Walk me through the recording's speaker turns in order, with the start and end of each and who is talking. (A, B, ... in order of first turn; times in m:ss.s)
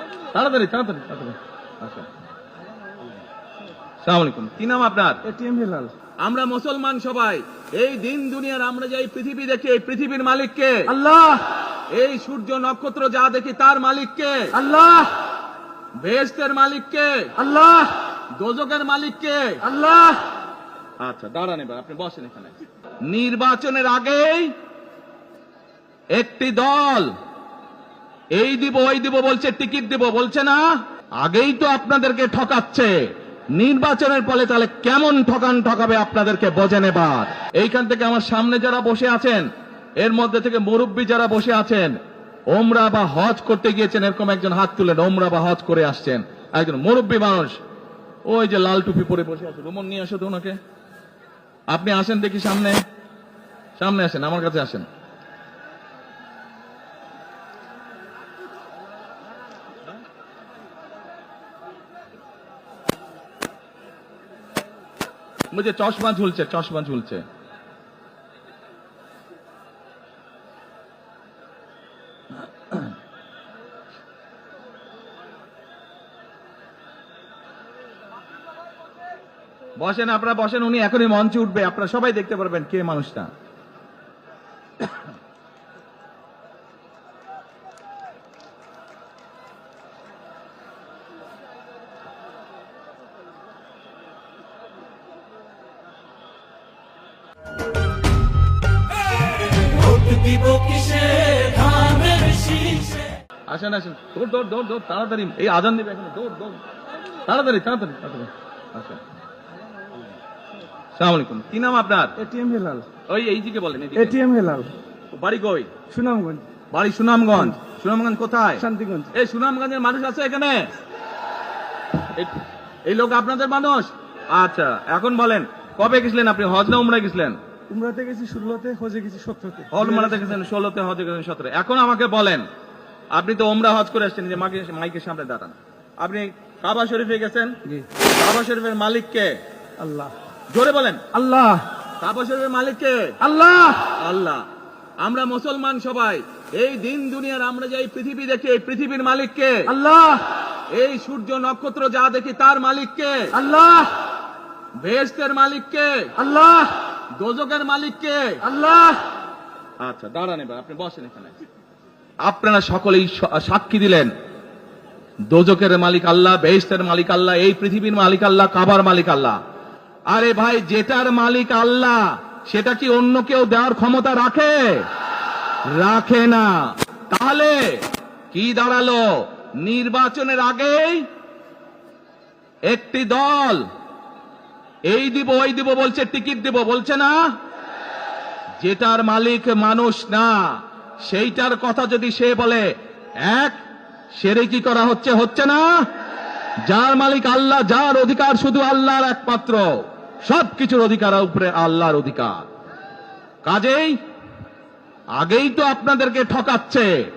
0:00.3-0:02.1 A
0:04.0-0:05.2 A
0:05.2-0:05.9 B
0:06.2-0:10.9 A
0:10.9-0:11.5 B
0:11.9-0:14.6 A
0:14.5-0:15.2 B
0:16.0-0:17.4 A
0:17.4-0:18.0 B
0:18.4-0:19.7 A
0:19.7-0:20.2 B
0:21.0-0:24.5 A
0:26.1-0:27.1 A
0:28.4-0:30.6 A
0:31.2-0:33.0 A
0:33.6-0:39.5 A
0:40.0-0:42.0 A
0:42.5-0:47.6 A
0:48.3-0:50.6 A
0:51.7-0:52.8 A
0:53.8-0:54.9 A
1:05.5-1:07.2 A
1:19.8-1:23.3 A
1:39.7-1:43.0 C
1:43.5-1:46.6 A
1:47.3-1:49.0 A
1:51.0-1:52.2 A
1:52.2-1:52.9 B
1:53.1-1:54.2 A
1:54.0-1:54.7 B
1:55.2-1:55.7 A
1:55.9-1:56.5 B
1:56.7-2:00.7 A
1:58.6-1:59.1 B
2:02.1-2:07.4 A
2:07.7-2:10.4 B
2:09.7-2:12.4 A
2:13.1-2:19.4 A
2:19.8-2:20.1 B
2:20.5-2:21.1 A
2:21.1-2:21.7 B
2:22.0-2:23.2 A
2:23.2-2:23.9 B
2:23.9-2:24.4 A
2:25.0-2:29.7 A
2:29.7-2:30.3 B
2:30.7-2:33.4 A
2:33.4-2:34.0 B
2:34.8-2:36.2 A
2:36.2-2:36.7 B
2:37.2-2:38.5 A
2:38.5-2:39.0 B
2:39.8-2:41.4 A
2:42.2-2:44.1 A
2:45.3-2:49.4 A
2:50.1-2:54.9 A
2:55.7-2:57.8 A
2:58.3-3:01.1 A
3:02.7-3:03.6 A
3:04.9-3:07.2 A
3:08.6-3:12.7 A
3:13.2-3:13.6 A
3:14.2-3:15.7 A
3:16.7-3:22.4 A
3:23.4-3:24.0 A
3:25.2-3:27.0 A